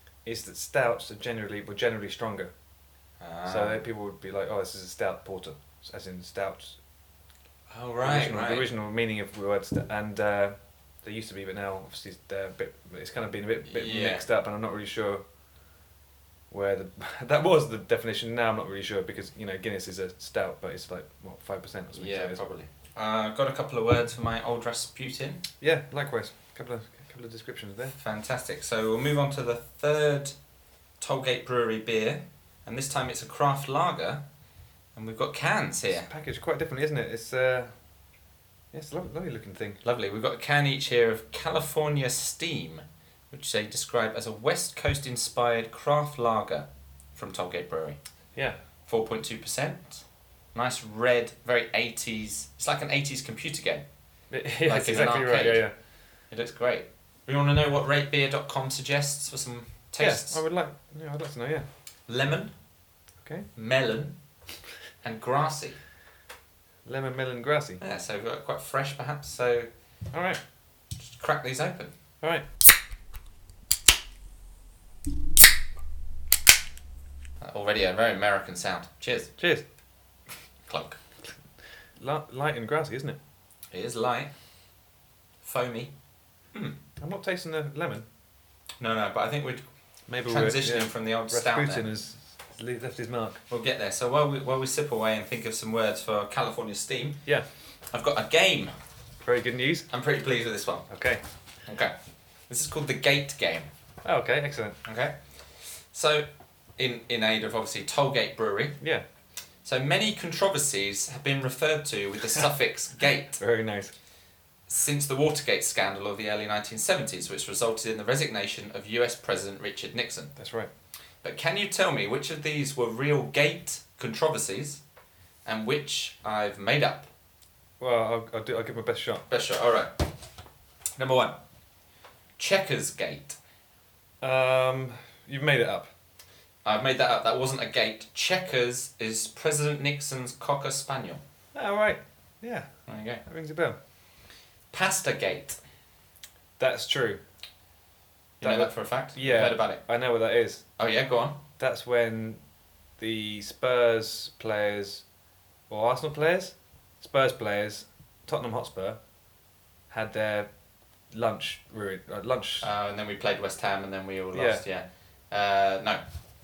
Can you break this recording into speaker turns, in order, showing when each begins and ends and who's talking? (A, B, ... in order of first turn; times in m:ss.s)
0:00.2-0:02.5 A
0:03.2-0:03.8 B
0:03.5-0:06.8 A
0:07.7-0:08.7 B
0:08.0-0:15.2 A
0:13.7-0:14.2 B
0:16.5-0:22.4 A
0:22.0-0:25.4 B
0:25.6-0:28.0 A
0:28.0-0:30.4 B
0:31.0-0:34.2 B
0:35.0-0:36.1 B
0:35.9-0:37.7 A
0:38.7-0:39.8 A
0:39.8-0:48.0 B
0:48.9-0:53.8 B
0:54.3-0:55.8 A
0:54.7-0:55.6 B
0:56.3-1:00.4 B
1:00.0-1:01.7 A
1:02.1-1:02.5 B
1:03.6-1:04.2 B
1:05.0-1:05.8 B
1:06.9-1:07.8 A
1:07.8-1:09.7 B
1:10.1-1:10.4 A
1:11.0-1:11.9 B
1:17.4-1:19.3 B
1:19.4-1:19.6 A
1:20.7-1:21.0 B
1:22.0-1:23.2 A
1:23.7-1:24.3 B
1:25.4-1:25.9 B
1:27.0-1:28.1 A
1:28.8-1:29.6 B
1:30.1-1:33.4 A
1:30.3-1:31.9 B
1:33.5-1:37.2 B
1:37.9-1:38.7 B
1:39.2-1:39.9 A
1:39.9-1:40.9 B
1:40.9-1:41.2 A
1:41.7-1:41.9 B
1:42.5-1:43.7 B
1:44.0-1:44.8 A
1:44.8-1:48.8 B
1:49.6-1:53.4 B
1:53.4-1:53.9 A
1:54.7-2:00.3 B
2:00.4-2:00.7 A
2:01.2-2:04.8 B
2:05.4-2:07.1 B
2:07.8-2:09.3 A
2:09.3-2:10.1 B
2:11.0-2:11.4 B
2:12.4-2:13.4 B
2:14.2-2:15.9 A
2:16.6-2:21.2 B
2:21.6-2:22.7 A
2:22.9-2:23.2 B
2:23.2-2:23.8 A
2:24.7-2:25.6 B
2:26.6-2:27.2 A
2:28.4-2:29.8 B
2:28.4-2:30.6 A
2:30.8-2:31.4 B
2:31.6-2:32.4 A
2:33.0-2:35.0 A
2:35.7-2:39.0 A
2:39.9-2:40.5 A
2:41.1-2:42.7 A
2:42.6-2:46.0 B
2:44.3-2:44.6 A